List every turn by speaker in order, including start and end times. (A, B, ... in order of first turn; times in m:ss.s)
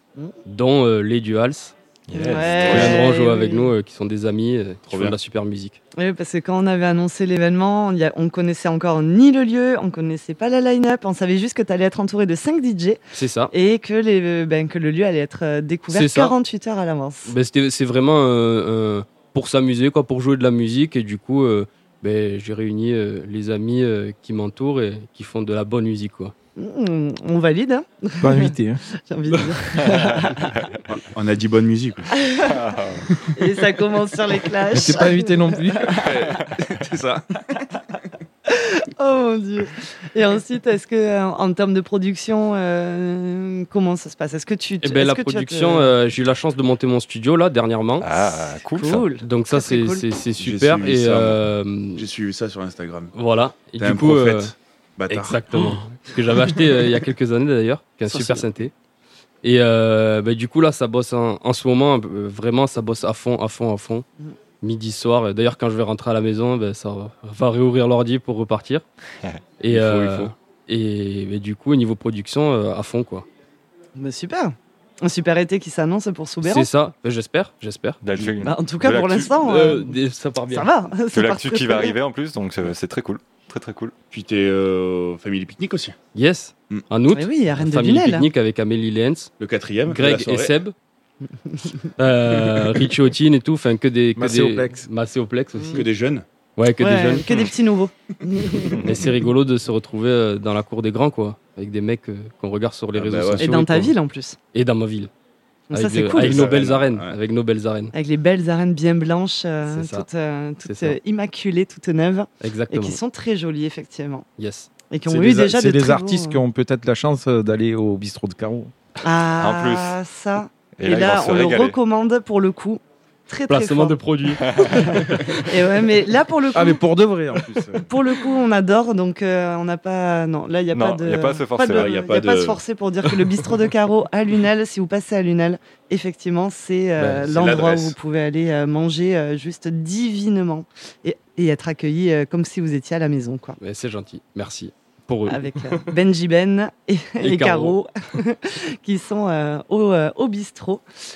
0:00.4-0:01.7 A
0:02.1-0:03.0 B
0:02.1-0:03.7 C
0:02.6-0:05.8 A
0:04.9-0:05.1 D
0:06.0-0:13.0 C
0:13.1-0:13.5 A
0:13.5-0:17.3 C
0:15.9-0:16.3 A
0:17.3-0:26.3 A
0:26.6-0:30.5 C
0:28.2-0:28.8 E
0:29.8-0:30.2 B
0:31.1-0:32.0 D
0:32.2-0:32.5 C
0:32.4-0:33.0 B
0:33.3-0:36.0 C
0:34.7-0:35.8 E
0:35.9-0:37.2 D
0:38.5-0:45.9 C
0:44.8-0:48.0 A
0:48.0-0:49.1 B
0:48.7-0:50.0 C
0:49.2-0:52.0 A
0:50.4-0:51.4 D
0:52.0-0:53.1 D
0:53.1-0:54.5 A
0:53.8-0:55.4 D
0:55.1-0:58.7 A
0:59.4-1:04.0 A
1:04.6-1:08.8 A
1:09.6-1:13.2 A
1:09.7-1:10.3 D
1:14.0-1:16.7 C
1:16.4-1:18.0 A
1:18.0-1:19.5 B
1:18.4-1:19.9 C
1:19.4-1:20.7 A
1:20.5-1:21.9 C
1:21.1-1:23.9 B
1:24.1-1:26.0 D
1:26.1-1:29.3 A
1:27.1-1:28.3 C
1:29.4-1:30.5 D
1:29.9-1:30.7 A
1:31.4-1:31.9 C
1:32.0-1:35.8 A
1:34.2-1:34.9 E
1:35.5-1:35.8 C
1:35.7-1:36.2 D
1:36.6-1:37.5 A
1:36.8-1:38.7 C
1:38.8-1:43.9 A
1:43.0-1:43.5 D
1:43.4-1:44.4 C
1:44.5-1:45.1 A
1:45.7-1:46.4 C
1:45.7-1:47.9 A
1:46.1-1:47.2 D
1:47.9-1:54.2 C
1:49.6-1:50.0 A
1:50.6-1:51.0 A
1:52.4-1:53.0 A
1:54.4-1:54.7 A
1:54.9-1:56.4 C
1:55.0-1:58.7 E
1:59.0-2:04.0 C
1:59.4-2:00.0 B
2:00.8-2:01.8 B
2:03.5-2:04.4 A
2:04.4-2:04.8 B
2:04.6-2:06.8 C
2:06.5-2:07.8 E
2:07.8-2:23.6 C
2:10.7-2:12.0 B
2:11.8-2:12.6 D
2:17.1-2:17.9 D
2:23.6-2:25.5 A
2:25.3-2:30.8 C